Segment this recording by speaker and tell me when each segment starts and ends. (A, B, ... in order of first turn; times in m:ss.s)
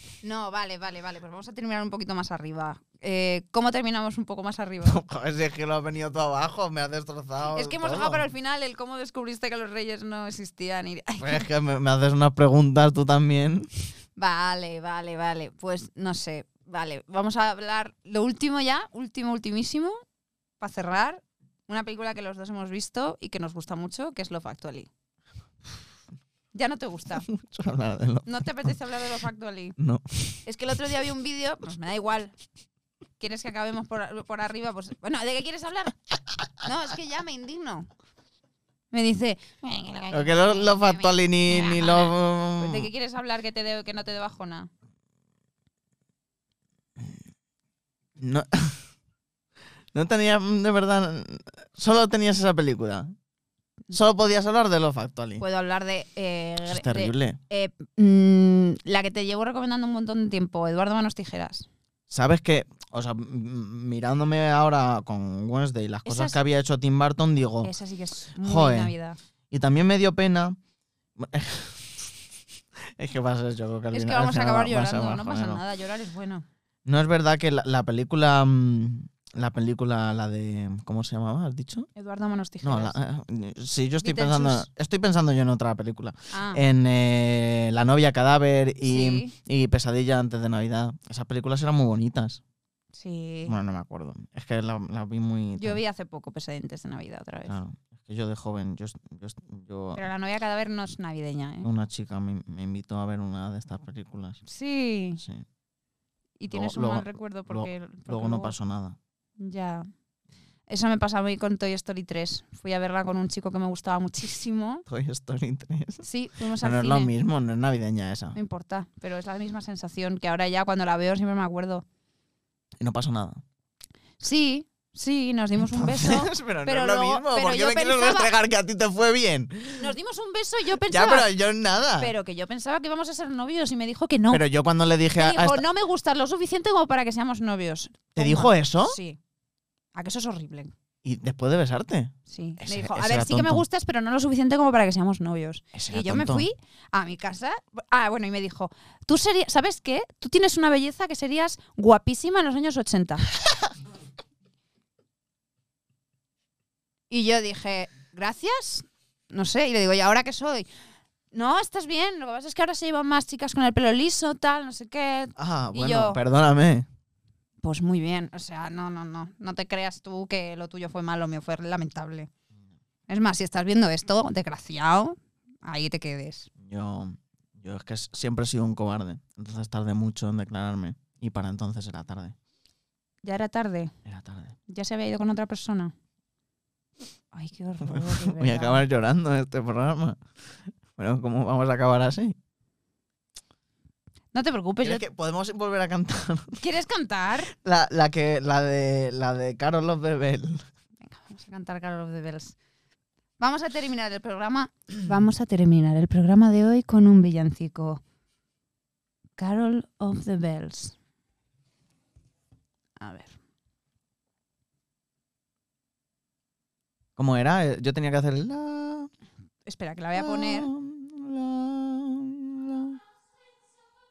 0:00.2-0:05.0 A
0:04.9-0:08.3 B
0:07.5-0:11.5 A
0:11.2-0:13.7 B
0:14.2-0:20.0 A
0:20.6-0:24.9 A
0:26.5-0:27.3 A
0:27.3-0:28.7 B
0:28.3-0:29.8 A
0:29.8-0:30.4 B
0:30.4-0:32.4 A
0:33.2-0:36.0 A
0:36.6-0:37.9 A
0:38.9-0:44.7 A
0:40.1-0:42.9 B
0:48.2-0:48.8 B
0:49.9-0:53.1 B
0:53.9-0:55.4 B
0:55.4-1:01.7 A
0:56.7-0:57.4 B
1:02.1-1:07.7 B
1:06.0-1:06.4 A
1:07.6-1:09.2 A
1:08.4-1:09.0 B
1:09.5-1:10.6 B
1:11.2-1:12.2 B
1:13.0-1:15.6 B
1:13.9-1:16.4 A
1:16.9-1:21.9 B
1:22.0-1:23.0 A
1:22.6-1:32.4 B
1:24.0-1:24.7 A
1:26.3-1:26.6 A
1:28.8-1:29.3 A
1:33.0-1:33.6 A
1:33.5-1:35.8 B
1:35.6-1:37.6 A
1:37.5-1:40.0 B
1:40.0-1:41.7 A
1:41.6-1:44.4 B
1:44.4-1:45.2 A
1:45.2-1:45.5 B
1:46.4-1:48.6 A
1:46.5-1:49.0 B
1:49.4-1:49.9 A
1:50.7-1:54.9 A
1:54.9-1:56.0 B
1:56.0-1:57.1 A
1:56.6-1:58.4 B
1:58.4-2:01.8 A
2:02.8-2:03.4 B
2:04.2-2:08.3 A
2:05.6-2:10.0 B
2:09.8-2:11.3 A
2:10.8-2:12.2 B
2:12.0-2:14.4 A
2:14.3-2:15.6 B
2:15.2-2:19.2 A
2:18.2-2:19.0 B
2:20.0-2:20.7 A
2:21.0-2:23.6 B
2:22.3-2:33.3 A
2:25.7-2:26.5 B
2:37.1-2:40.7 A
2:41.3-2:46.2 A
2:45.4-2:46.9 B
2:47.6-2:52.3 A
2:53.1-2:56.5 A
2:56.6-3:02.4 B
3:03.2-3:04.0 A
3:04.0-3:04.6 B
3:04.7-3:05.9 A
3:07.3-3:08.8 A
3:07.8-3:10.2 B
3:11.0-3:12.4 B
3:14.3-3:15.0 A
3:14.8-3:16.6 B
3:16.6-3:17.5 A
3:17.5-3:20.7 B
3:21.0-3:22.6 A
3:23.4-3:28.0 A
3:29.4-3:31.0 A
3:33.0-3:33.4 A
3:37.2-3:39.1 B
3:39.7-3:40.7 A
3:40.2-3:43.0 B